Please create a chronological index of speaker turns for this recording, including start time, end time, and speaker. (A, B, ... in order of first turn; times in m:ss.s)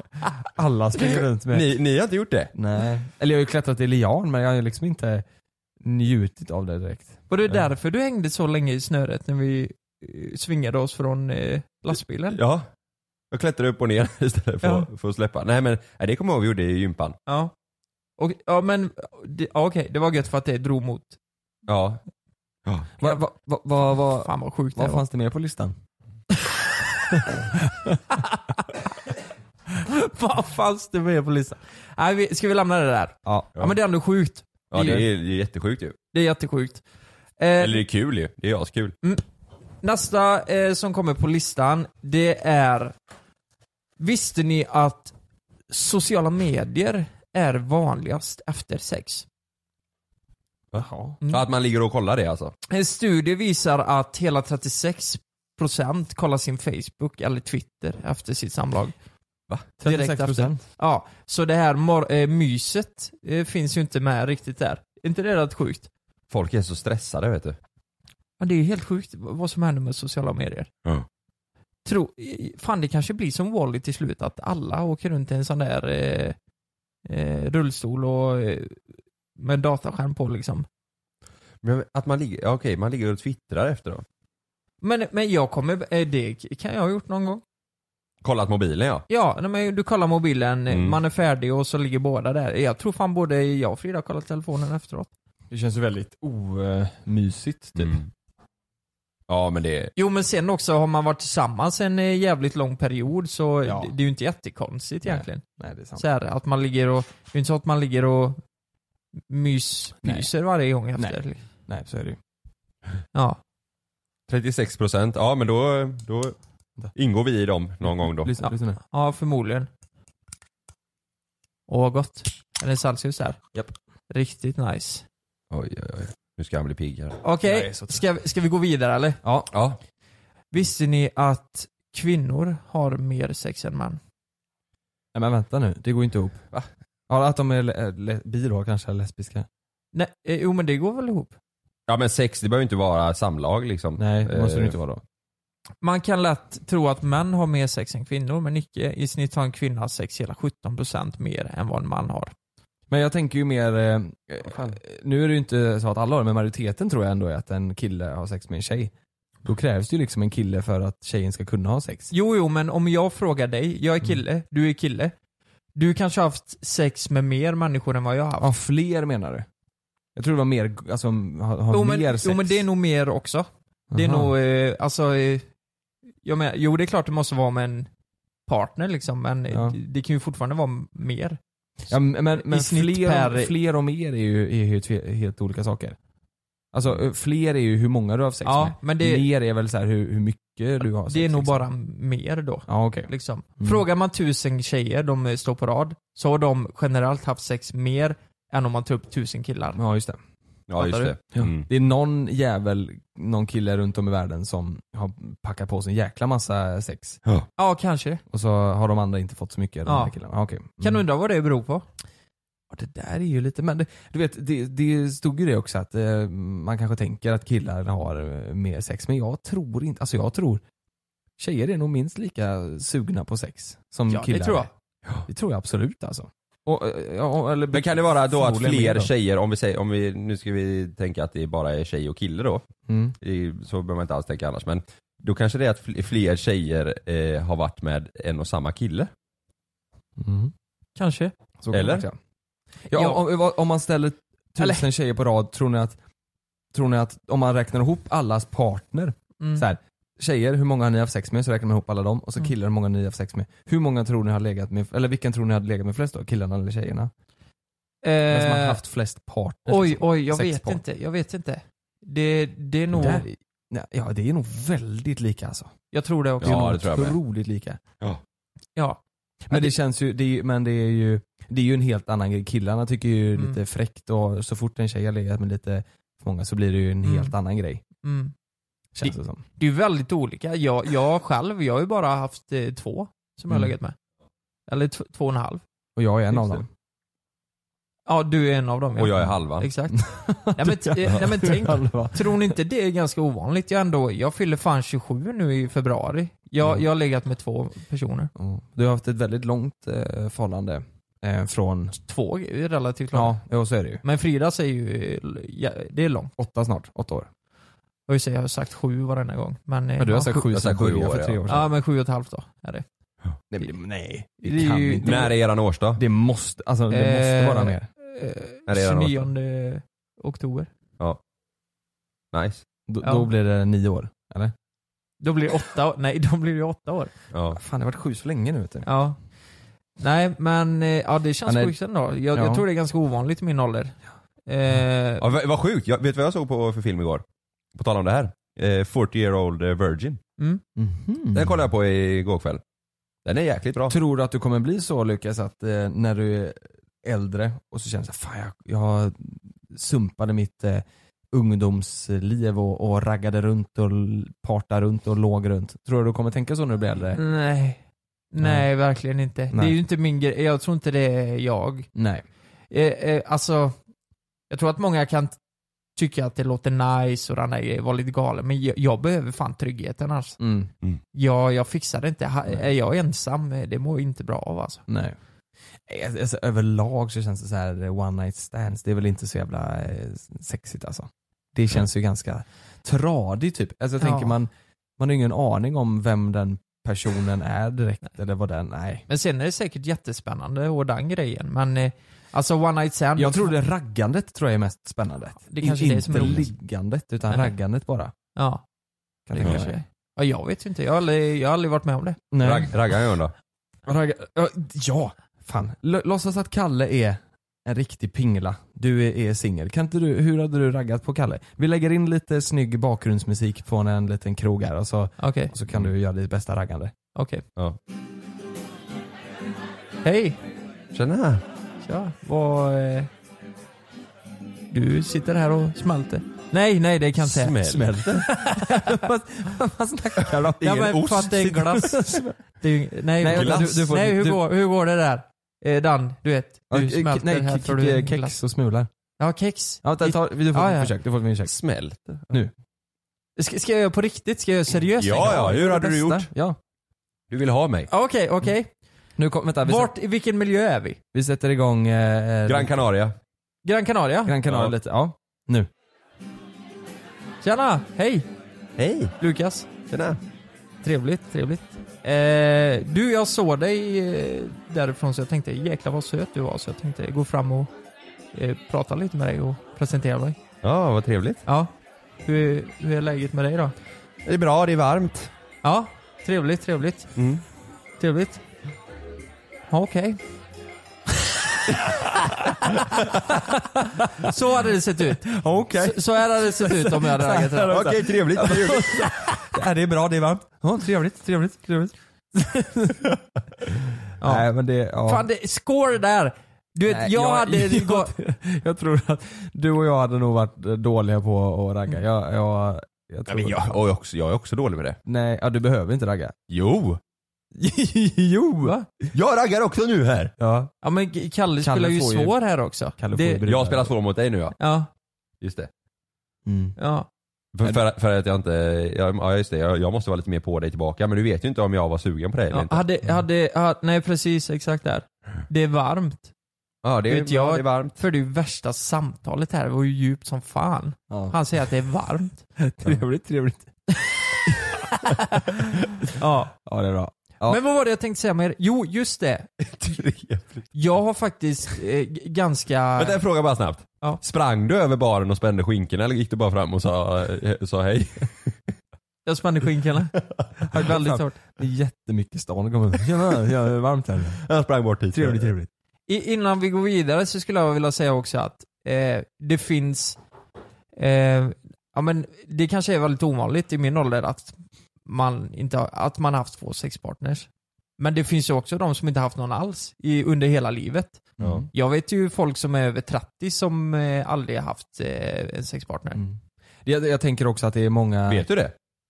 0:00.4-0:01.8 A
0:01.1-0:02.5 B
0:02.5-0:05.2 A
0:05.8-0:07.2 A
0:07.3-0:12.4 C
0:12.3-0:12.6 B
0:13.3-0:17.2 B
0:14.6-0:14.9 C
0:17.3-0:17.5 C
0:18.2-0:21.2 C
0:21.7-0:22.0 B
0:23.0-0:25.7 A
0:24.1-0:25.0 C
0:27.5-0:28.0 A
0:28.2-0:28.6 C
0:29.8-0:35.0 C
0:33.2-0:33.7 A
0:34.7-0:36.0 B
0:34.8-0:35.0 A
0:36.1-0:36.8 C
0:37.4-0:37.8 C
0:37.6-0:38.9 B
0:39.8-0:42.9 C
0:44.0-0:45.1 C
0:45.7-0:49.2 C
0:50.7-0:52.5 B
0:50.8-0:51.2 A
0:52.7-0:58.9 C
0:59.8-1:00.6 A
0:59.8-1:05.9 C
1:06.3-1:07.6 B
1:08.4-1:10.7 C
1:11.8-1:16.4 C
1:17.0-1:18.8 C
1:19.4-1:20.6 C
1:21.6-1:24.0 B
1:24.8-1:27.4 C
1:28.2-1:29.0 B
1:29.1-1:35.1 C
1:30.7-1:31.0 B
1:35.5-1:38.0 A
1:37.8-1:38.1 B
1:39.3-1:39.9 B
1:40.0-1:45.4 C
1:43.6-1:43.9 A
1:45.0-1:46.0 A
1:46.0-1:48.4 C
1:49.3-1:51.4 C
1:50.0-1:50.3 A
1:51.0-1:52.2 A
1:53.1-1:53.4 C
1:54.3-1:56.4 B
1:56.9-1:58.3 B
1:57.8-1:58.8 A
1:58.4-1:59.7 C
2:01.7-2:03.4 C
2:04.1-2:05.0 C
2:05.5-2:07.2 B
2:07.2-2:09.2 C
2:07.4-2:08.0 A
2:09.2-2:09.5 A
2:09.5-2:09.8 B
2:10.5-2:14.0 C
2:15.1-2:16.4 A
2:17.1-2:19.5 A
2:19.9-2:21.3 C
2:21.9-2:24.8 B
2:24.0-2:25.0 A
2:25.8-2:32.3 C
2:32.9-2:38.9 A
2:39.4-2:42.1 A
2:42.1-2:45.1 C
2:45.7-2:48.5 C
2:48.4-2:49.4 A
2:50.2-2:52.6 A
2:51.7-2:55.4 C
2:53.9-2:54.3 A
2:56.2-2:57.9 C
2:58.5-3:01.4 C
2:59.5-2:59.8 A
3:01.9-3:06.0 A
3:02.3-3:03.5 C
3:06.7-3:11.7 A
3:08.4-3:09.3 C
3:11.1-3:19.8 C
3:12.7-3:13.8 A
3:19.8-3:20.2 A
3:20.7-3:21.7 B
3:20.8-3:21.1 C
3:21.3-3:27.2 A
3:27.6-3:28.2 C
3:28.3-3:31.0 A
3:29.8-3:30.1 C
3:30.8-3:31.8 C
3:32.7-3:40.6 A
3:41.4-3:44.7 A
3:44.1-3:44.7 C
3:45.3-3:49.1 A
3:47.7-3:52.6 B
3:52.9-3:53.2 A
3:53.2-3:59.1 B
4:00.2-4:00.5 A
4:01.0-4:01.3 C
4:01.6-4:02.2 A
4:01.7-4:02.0 B
4:02.9-4:06.0 A
4:02.9-4:03.2 C
4:06.7-4:17.1 A
4:09.4-4:09.6 C
4:18.0-4:18.8 C
4:18.3-4:20.8 A
4:19.7-4:23.2 C
4:22.9-4:25.7 A
4:25.9-4:26.7 C
4:26.4-4:27.2 B
4:26.4-4:27.8 A
4:28.8-4:29.7 C
4:29.5-4:37.8 A
4:37.0-4:37.3 C
4:38.0-4:38.3 C
4:39.0-4:39.4 A
4:39.0-4:43.9 C
4:44.7-4:45.6 C
4:46.0-4:46.7 A
4:48.1-4:58.3 C
4:49.0-4:49.7 B
4:49.9-4:52.5 A
4:58.4-5:02.0 A
5:02.0-5:03.4 C
5:03.1-5:04.0 A
5:04.0-5:06.3 C
5:06.4-5:07.3 A
5:08.1-5:10.5 C
5:10.0-5:11.7 A
5:10.5-5:11.4 B
5:11.5-5:12.8 C
5:13.5-5:15.3 A
5:14.4-5:15.3 C
5:15.0-5:16.0 B
5:15.9-5:17.9 A
5:16.9-5:20.7 C
5:18.7-5:19.3 B
5:22.3-5:22.6 B
5:22.9-5:24.5 A
5:23.0-5:23.3 C
5:25.2-5:27.1 C
5:27.3-5:27.6 B
5:27.5-5:28.9 A
5:28.8-5:29.2 C
5:30.0-5:35.2 C
5:31.4-5:31.7 A
5:32.3-5:32.6 A
5:35.2-5:37.2 B
5:37.7-5:40.2 B
5:40.8-5:41.6 A
5:41.3-5:42.6 B
5:43.2-5:43.9 B
5:43.9-5:57.2 A
5:57.1-6:01.9 C
5:58.4-5:58.7 A
5:59.5-5:59.8 A
6:01.9-6:02.2 A
6:02.7-6:03.8 C
6:04.5-6:05.4 C
6:06.0-6:10.4 C
6:10.4-6:10.7 A
6:11.1-6:14.8 C
6:14.9-6:15.2 A
6:15.8-6:29.0 A
6:24.0-6:24.4 C
6:29.1-6:33.5 C
6:33.2-6:38.1 A
6:35.5-6:36.5 C
6:38.4-6:38.6 C
6:39.3-6:39.8 A
6:39.3-6:42.2 C
6:42.3-6:42.8 A
6:42.4-6:43.3 B
6:43.8-6:56.9 A
6:55.2-6:55.5 C
6:57.1-6:57.4 C
7:00.0-7:00.4 C
7:00.9-7:01.4 B
7:01.8-7:03.1 C
7:04.7-7:07.6 C
7:07.2-7:08.2 B
7:07.5-7:12.3 A
7:08.2-7:09.0 C
7:10.6-7:11.8 B
7:10.6-7:18.4 C
7:13.2-7:14.4 A
7:13.3-7:13.6 B
7:16.7-7:18.9 A
7:19.2-7:20.9 C
7:19.8-7:21.5 A
7:21.4-7:22.4 B
7:23.4-7:25.6 C
7:25.0-7:26.3 B
7:25.2-7:26.6 A
7:27.3-7:27.9 B
7:27.9-7:28.7 C
7:29.2-7:29.9 A
7:29.6-7:31.0 C
7:31.1-7:32.8 A
7:32.5-7:33.1 B
7:33.6-7:34.4 C
7:34.2-7:35.7 A
7:34.4-7:34.7 B
7:37.4-7:38.2 C
7:38.8-7:39.1 B
7:39.2-7:39.7 C
7:39.9-7:40.2 B
7:40.8-7:47.7 C
7:48.3-7:50.4 C
7:50.6-7:51.4 B
7:51.4-7:51.7 C
7:52.2-7:53.7 C
7:54.2-7:55.3 B
7:55.6-7:57.1 C
7:57.2-7:57.4 B
7:58.0-7:58.4 C
7:59.7-8:00.2 C
8:02.4-8:02.8 C
8:04.2-8:05.3 C
8:05.1-8:13.2 A
8:05.8-8:07.8 C
8:07.7-8:09.1 B
8:14.2-8:14.5 C
8:14.2-8:15.2 A
8:15.0-8:18.1 C
8:16.9-8:23.8 A
8:23.3-8:25.0 B
8:25.0-8:26.3 A
8:26.5-8:27.0 B
8:27.5-8:28.8 A
8:29.1-8:30.3 B
8:30.4-8:30.7 A
8:30.8-8:33.4 C
8:31.6-8:32.4 A
8:32.9-8:33.9 A
8:33.4-8:34.6 B
8:34.6-8:34.9 C
8:35.4-8:35.7 B
8:36.4-8:36.8 A
8:36.8-8:37.1 C
8:37.5-8:42.8 B
8:42.5-8:46.3 C
8:46.8-8:48.0 B
8:47.1-8:52.4 C
8:51.1-8:51.4 A
8:52.6-8:54.7 A
8:54.8-8:56.5 C
8:56.6-8:57.6 A
8:57.4-8:59.5 C
8:59.7-9:00.6 B
9:00.7-9:03.2 C
9:03.0-9:08.7 B
9:09.2-9:10.2 C
9:10.3-9:10.6 B
9:10.7-9:14.4 A
9:10.7-9:11.4 C
9:14.4-9:15.5 B
9:15.1-9:15.7 A
9:16.1-9:20.2 C
9:21.0-9:27.5 C
9:28.0-9:36.2 C
9:31.4-9:31.7 A
9:31.4-9:31.6 B
9:36.1-9:38.5 A
9:38.3-9:38.7 B